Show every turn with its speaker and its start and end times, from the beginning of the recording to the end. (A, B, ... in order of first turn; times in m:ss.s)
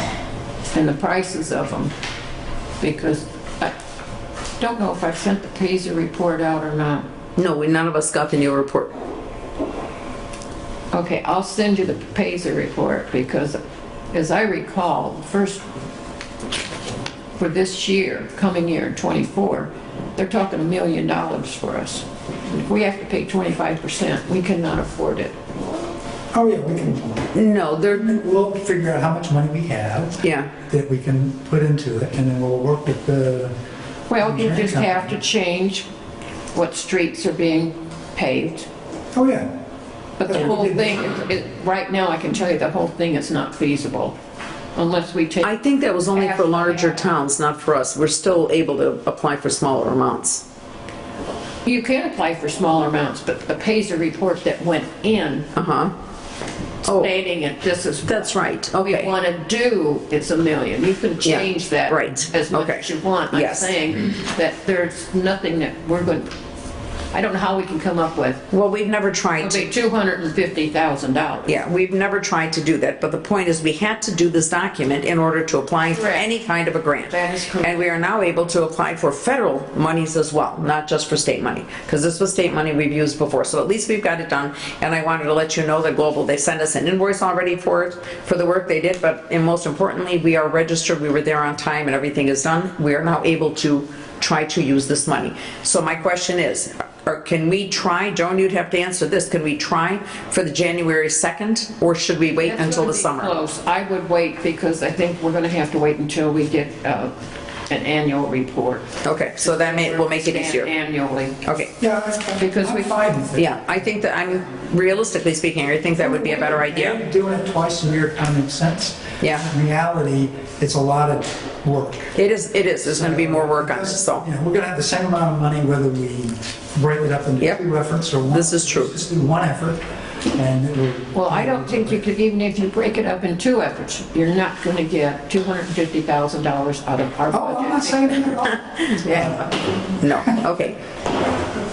0:00.7-0:01.9 A
0:02.8-0:03.7 A
0:04.6-0:07.0 A
0:07.4-0:08.9 B
0:10.9-0:13.6 A
0:14.1-0:15.6 A
0:17.4-0:25.3 A
0:26.3-0:27.3 C
0:27.3-0:28.2 B
0:28.0-0:33.5 C
0:30.2-0:30.5 B
0:34.1-0:35.9 A
0:34.2-0:35.1 C
0:36.5-0:38.7 A
0:39.1-0:39.5 C
0:40.2-0:44.1 A
0:40.3-0:41.0 C
0:44.7-0:45.5 A
0:45.4-0:50.4 B
0:46.1-0:47.1 A
0:51.6-0:55.5 A
0:55.5-0:55.9 B
0:56.8-0:57.1 B
0:56.8-1:06.3 A
0:58.1-0:59.1 B
1:01.2-1:03.7 B
1:07.1-1:08.4 A
1:08.5-1:09.6 B
1:09.4-1:11.6 A
1:11.5-1:43.3 B
1:15.9-1:16.3 A
1:17.1-1:17.9 A
1:42.4-1:47.1 A
1:47.7-1:51.4 A
1:49.0-1:50.7 B
1:51.4-1:51.7 B
1:51.8-1:53.6 C
1:52.4-1:53.0 A
1:53.4-1:57.0 B
1:56.0-2:02.1 C
1:59.2-1:59.4 B
2:02.1-2:04.2 B
2:02.8-2:09.8 C
2:08.3-2:08.9 B
2:10.3-2:12.0 C
2:11.1-2:18.5 A
2:17.3-2:19.5 C
2:18.5-2:19.0 B
2:19.0-2:19.4 A
2:20.0-2:20.8 B